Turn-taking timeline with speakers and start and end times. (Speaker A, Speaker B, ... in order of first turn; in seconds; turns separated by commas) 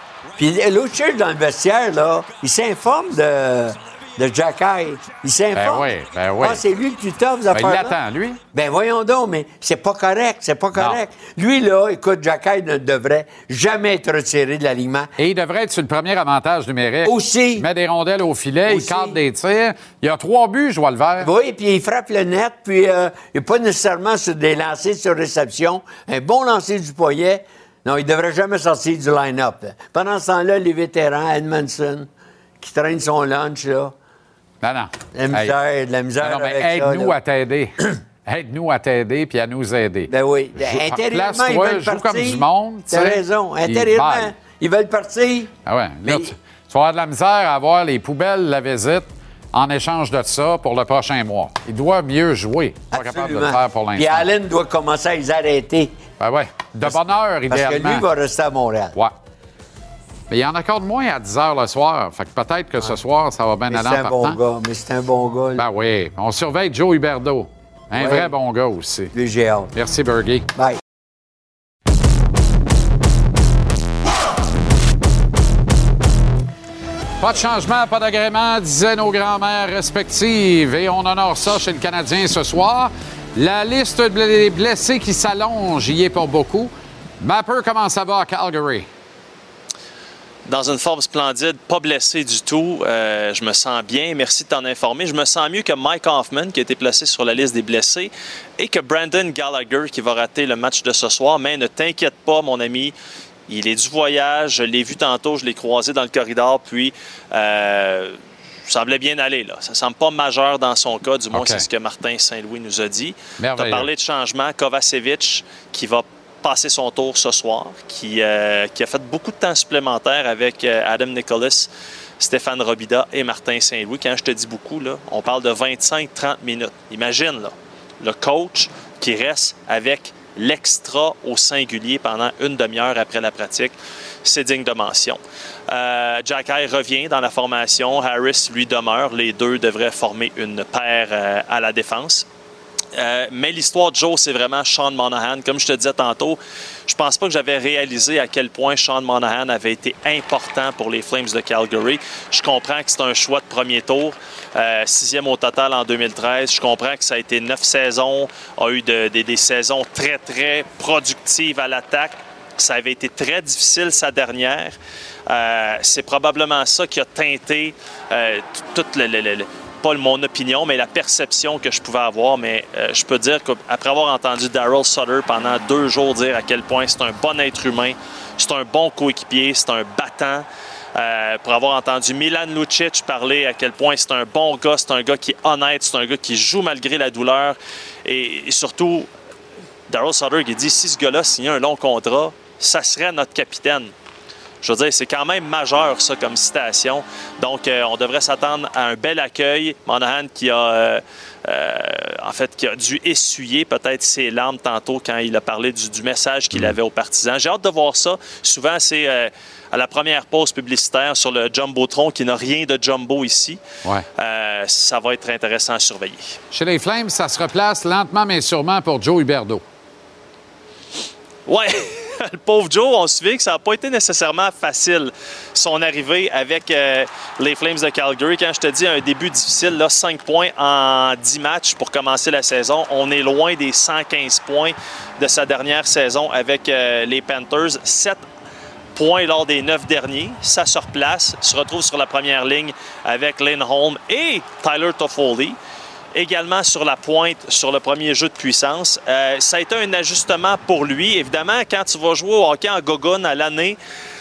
Speaker A: 0.4-5.9, Speaker B: 5.5-6.6, Speaker A: 6.4-8.0, Speaker B: 7.5-8.4, Speaker A: 8.5-15.1, Speaker B: 10.8-11.0, Speaker B: 15.2-21.3, Speaker A: 17.1-17.7, Speaker A: 18.7-19.2, Speaker A: 21.2-32.1, Speaker A: 32.6-33.9, Speaker B: 34.6-35.6, Speaker A: 35.1-37.2, Speaker B: 36.2-44.3, Speaker A: 40.1-45.5, Speaker B: 45.7-54.3, Speaker A: 46.0-46.3, Speaker A: 52.9-56.0, Speaker B: 56.2-58.1, Speaker A: 57.5-59.0, Speaker B: 60.3-64.4, Speaker A: 63.7-65.7, Speaker B: 65.6-69.1, Speaker A: 68.0-68.3, Speaker A: 69.1-69.7, Speaker B: 69.7-70.5, Speaker B: 77.2-88.9, Speaker C: 90.5-103.0, Speaker C: 103.5-121.7, Speaker B: 111.3-111.7, Speaker B: 113.4-113.9, Speaker C: 122.2-142.3, Speaker C: 142.9-164.8, Speaker C: 165.3-180.4, Speaker C: 181.0-189.1, Speaker C: 189.9-193.9, Speaker C: 194.6-213.6, Speaker C: 214.2-216.4, Speaker B: 216.5-219.6, Speaker C: 221.5-238.2, Speaker C: 238.9-245.6, Speaker C: 246.1-253.8